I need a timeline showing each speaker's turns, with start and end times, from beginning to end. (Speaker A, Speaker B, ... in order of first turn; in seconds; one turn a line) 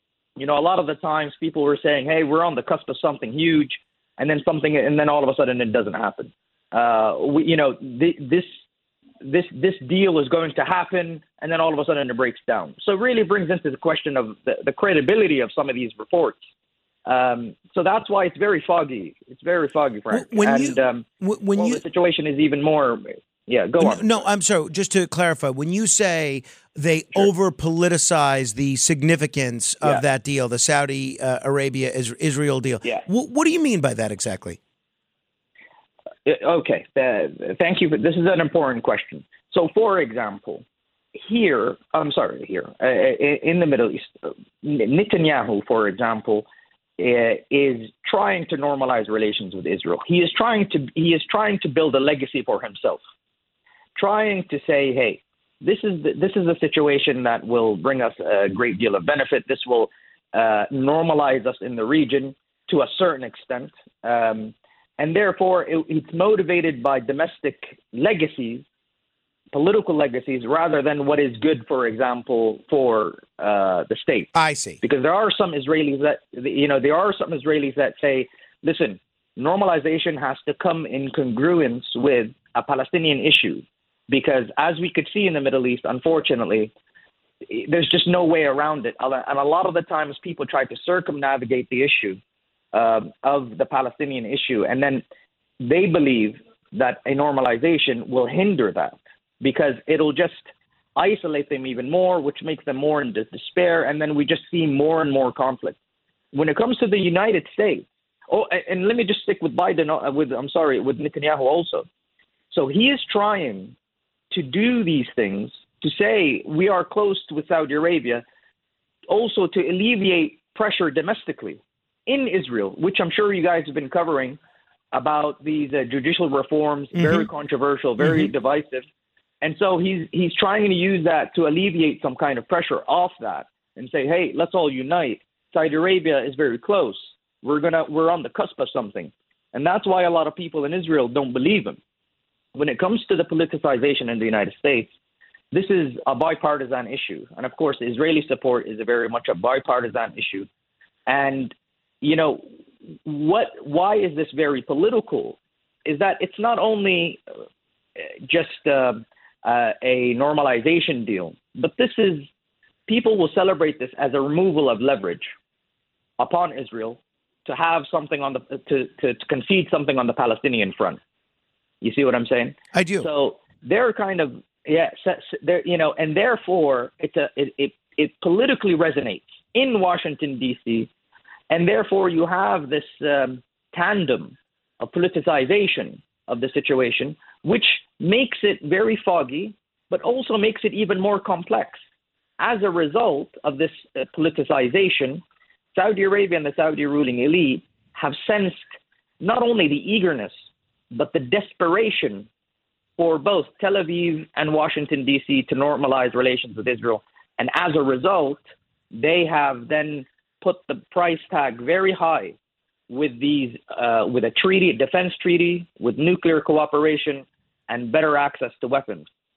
Speaker A: 0.4-8.5
Speaker A: 9.2-16.4
Speaker A: 17.1-24.2
Speaker B: 20.1-21.8
Speaker B: 23.8-34.6
Speaker A: 36.2-40.6
Speaker A: 41.1-53.0
Speaker A: 54.0-68.7
Speaker A: 69.5-74.3
Speaker B: 74.3-74.8
Speaker A: 74.8-86.7
Speaker A: 87.5-92.2
Speaker A: 92.7-95.0
Speaker A: 95.6-105.8
Speaker A: 106.3-111.9
Speaker A: 112.5-113.8
Speaker A: 114.3-118.2
Speaker A: 119.1-124.4
Speaker A: 124.9-128.8
Speaker B: 127.0-127.3
Speaker B: 128.0-128.3
Speaker A: 129.4-141.8
Speaker A: 142.6-144.9
Speaker A: 145.5-150.5
Speaker A: 151.1-152.4
Speaker A: 153.1-157.2
Speaker A: 158.0-162.3
Speaker A: 162.9-165.3
Speaker A: 166.2-171.0
Speaker A: 171.8-180.9
Speaker B: 172.7-173.1
Speaker A: 181.5-191.8
Speaker A: 192.4-195.2
Speaker A: 195.7-198.6
Speaker A: 199.2-200.3
Speaker A: 200.9-202.3
Speaker A: 203.0-208.4
Speaker A: 208.9-212.4
Speaker A: 212.9-219.1